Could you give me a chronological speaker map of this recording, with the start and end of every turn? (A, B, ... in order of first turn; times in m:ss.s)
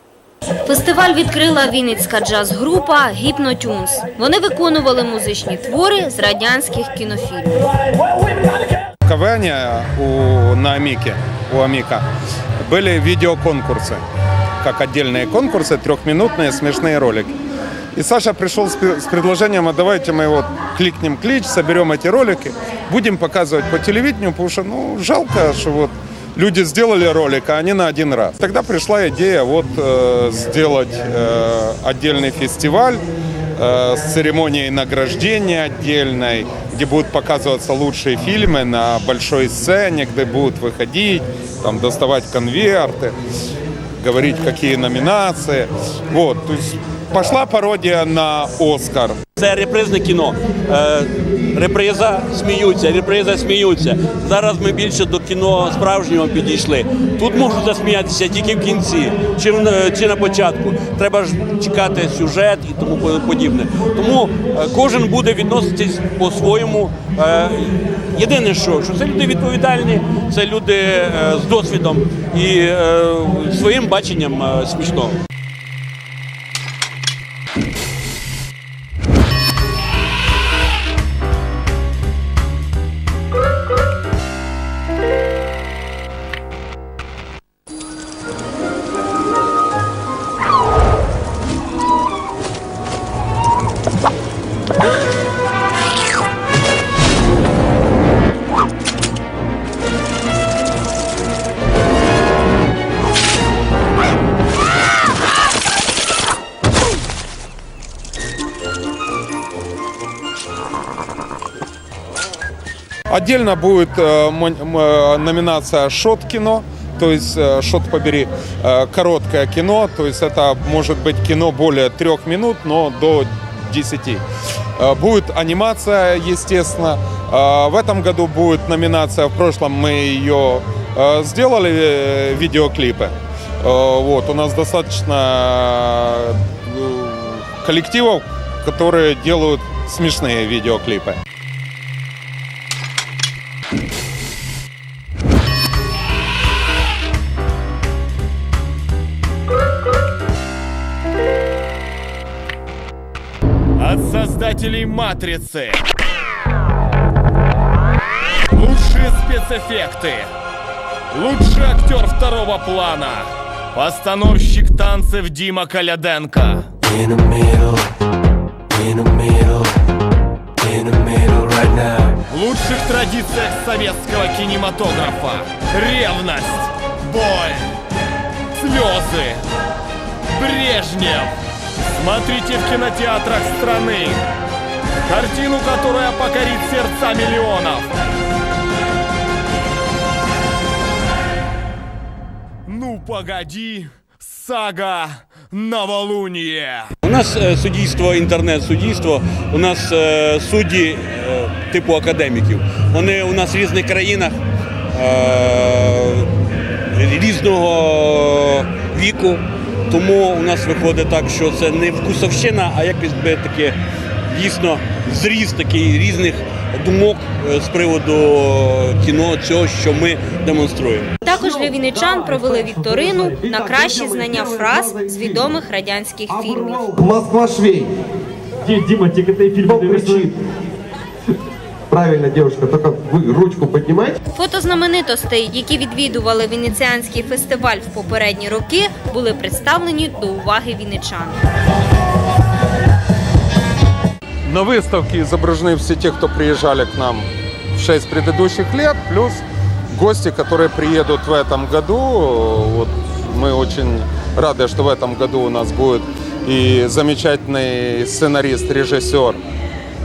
0:00.6-0:07.7 A
0:09.0-0:12.0 B
0:12.6-0:14.0 B
0:14.6-0:17.3 B
0:17.9-0:33.0 B
0:33.6-0:43.1 B
0:44.0-0:49.2 B
0:49.4-1:15.2 C
1:53.1-2:04.2 B
2:04.8-2:21.2 B
2:33.8-2:35.8 D
2:38.5-2:40.3 D
2:41.1-2:46.7 D
2:47.2-2:47.6 D
2:48.8-2:49.6 D
2:50.6-2:57.7 D
2:58.5-2:59.4 D
3:00.3-3:01.4 D
3:02.0-3:04.3 D
3:05.1-3:08.0 D
3:12.7-3:16.9 D
3:17.0-3:24.4 C
3:24.9-3:26.3 C
3:26.9-3:41.2 C
3:41.2-3:46.9 A
3:42.4-3:42.7 E
3:43.6-3:45.4 E
3:46.3-3:48.0 E
3:48.7-3:50.3 C
3:48.7-3:50.3 E
3:51.9-3:54.2 E
3:54.3-4:01.4 A
4:04.5-4:19.4 B